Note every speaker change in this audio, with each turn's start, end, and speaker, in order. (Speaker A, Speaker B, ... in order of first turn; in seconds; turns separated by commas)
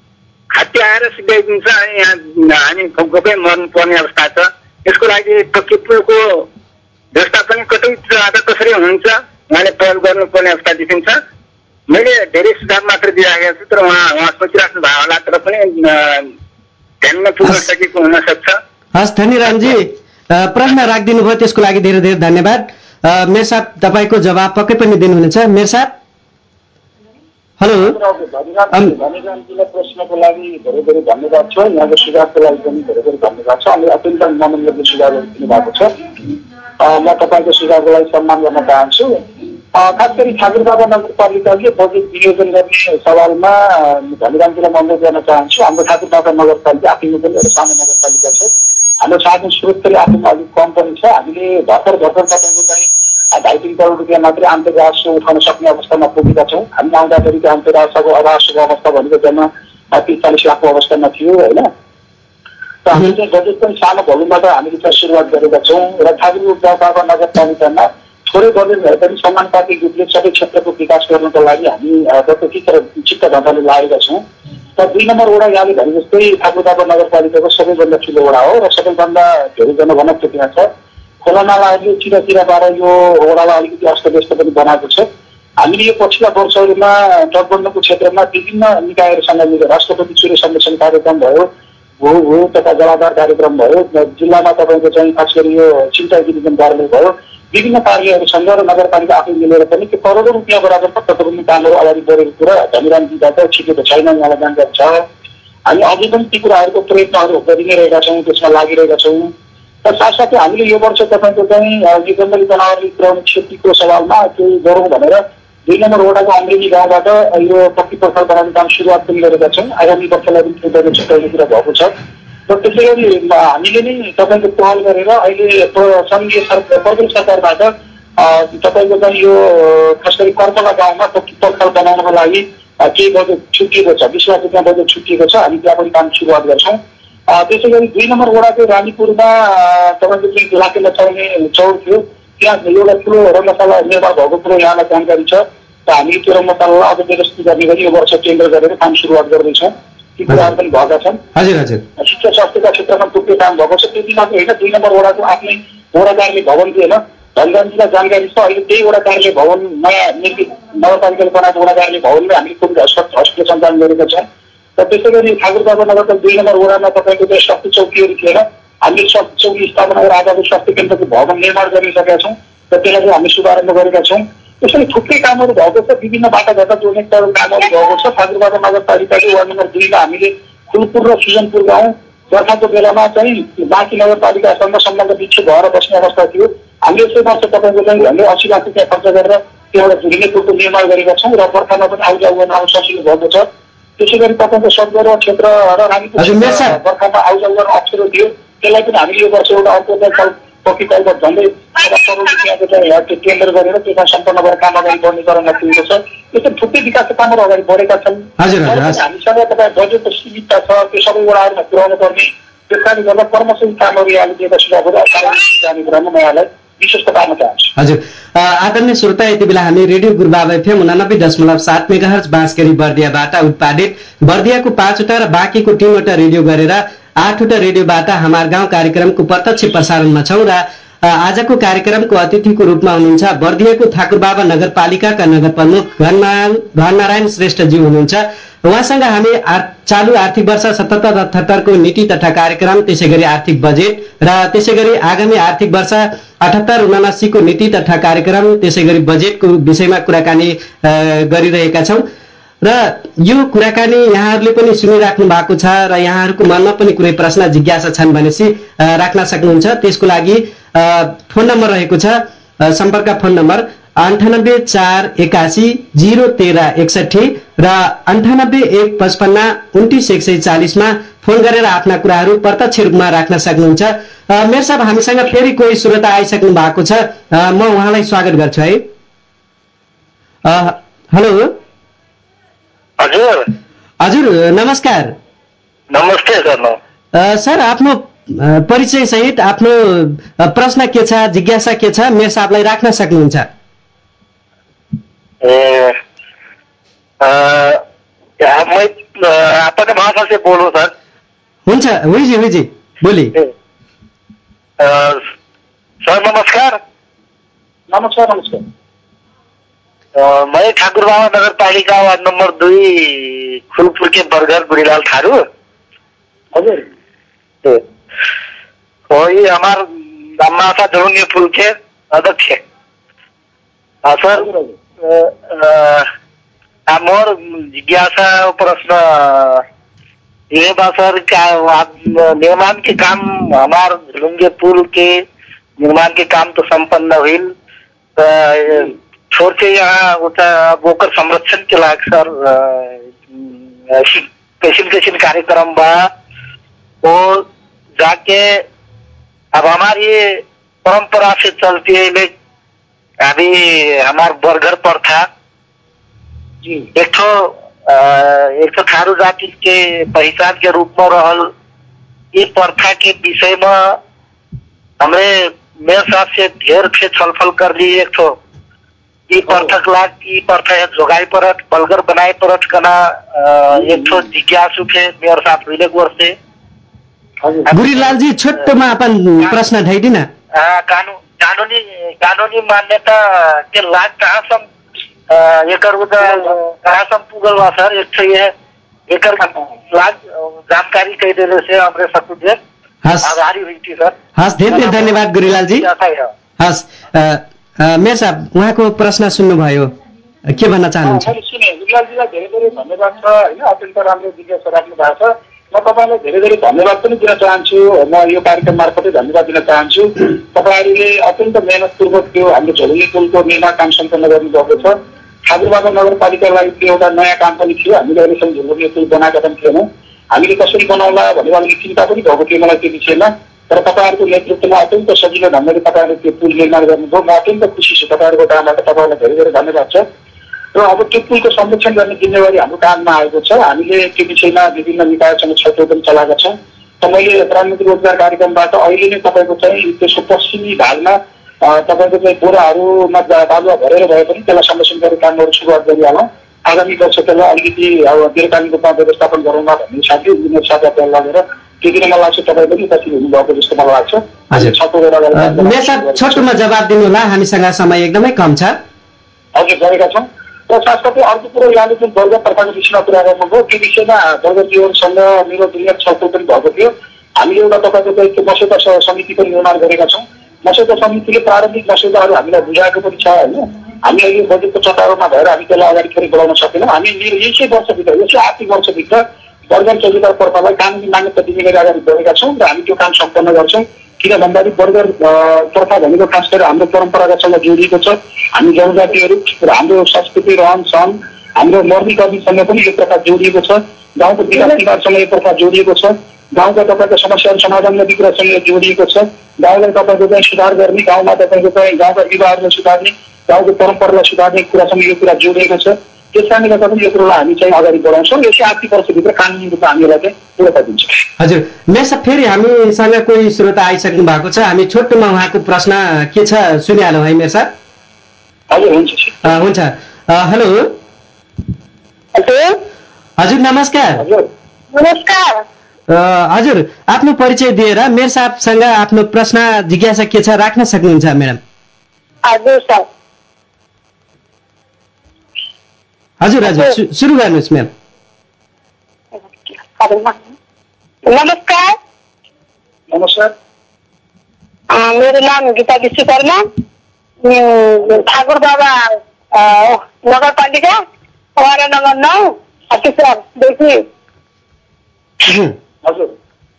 Speaker A: 0.5-6.5, Speaker A: 7.1-11.2, Speaker A: 11.9-16.3, Speaker A: 17.0-18.6, Speaker B: 18.9-25.9, Speaker B: 27.6-28.0, Speaker C: 27.8-35.9, Speaker C: 36.8-39.2, Speaker C: 39.7-48.5, Speaker C: 49.0-61.7, Speaker C: 62.8-74.2, Speaker C: 74.8-80.7, Speaker C: 81.2-85.0, Speaker C: 85.6-91.5, Speaker C: 92.0-105.0, Speaker C: 105.7-109.3, Speaker C: 109.8-121.9, Speaker C: 122.5-136.8, Speaker C: 137.3-151.2, Speaker B: 150.3-150.6, Speaker B: 151.3-151.8, Speaker C: 152.0-164.2, Speaker C: 164.8-193.5, Speaker C: 194.0-217.7, Speaker B: 196.2-196.8, Speaker B: 208.4-209.0, Speaker B: 217.8-252.1, Speaker B: 252.6-278.9, Speaker B: 280.4-281.6, Speaker D: 283.0-283.5, Speaker B: 284.0-285.1, Speaker D: 285.9-286.8, Speaker B: 287.1-293.5, Speaker D: 295.4-296.0, Speaker D: 297.2-297.8, Speaker D: 298.4-300.9, Speaker B: 301.7-303.3, Speaker D: 304.8-305.2, Speaker D: 306.0-306.8, Speaker C: 307.9-308.6, Speaker D: 310.1-315.4, Speaker C: 316.5-316.9, Speaker D: 319.1-319.9, Speaker D: 320.4-322.6, Speaker D: 324.0-324.5, Speaker C: 324.3-324.8, Speaker D: 325.0-326.1, Speaker D: 326.9-329.6, Speaker D: 330.5-335.2, Speaker D: 335.8-337.5, Speaker D: 338.2-346.1, Speaker D: 347.0-347.5, Speaker D: 348.0-348.6, Speaker D: 349.5-352.3, Speaker D: 353.2-355.3, Speaker D: 356.9-361.5, Speaker D: 362.3-364.0, Speaker D: 365.0-368.4, Speaker D: 369.3-376.4, Speaker C: 377.4-377.7, Speaker D: 377.7-378.0, Speaker B: 377.7-380.3, Speaker D: 380.5-384.7, Speaker D: 385.3-388.5, Speaker D: 389.1-392.6, Speaker B: 393.0-393.3, Speaker D: 393.2-396.3, Speaker B: 394.3-395.9, Speaker B: 396.6-399.9, Speaker B: 400.4-401.3, Speaker C: 401.0-430.0, Speaker C: 430.7-456.4, Speaker B: 454.5-454.8, Speaker B: 455.3-458.8, Speaker C: 459.5-511.1, Speaker B: 511.4-517.7, Speaker C: 518.7-519.6, Speaker B: 519.4-521.0, Speaker E: 522.3-522.8, Speaker B: 523.4-524.2, Speaker C: 524.2-524.5, Speaker E: 524.9-525.6, Speaker B: 526.1-531.6, Speaker E: 532.5-533.1, Speaker B: 536.4-537.9, Speaker E: 536.7-537.0, Speaker E: 539.5-540.4, Speaker E: 541.2-542.0, Speaker C: 543.1-543.5, Speaker E: 544.9-546.6, Speaker E: 547.4-551.0, Speaker E: 551.6-554.0, Speaker B: 555.4-555.8, Speaker C: 556.0-556.3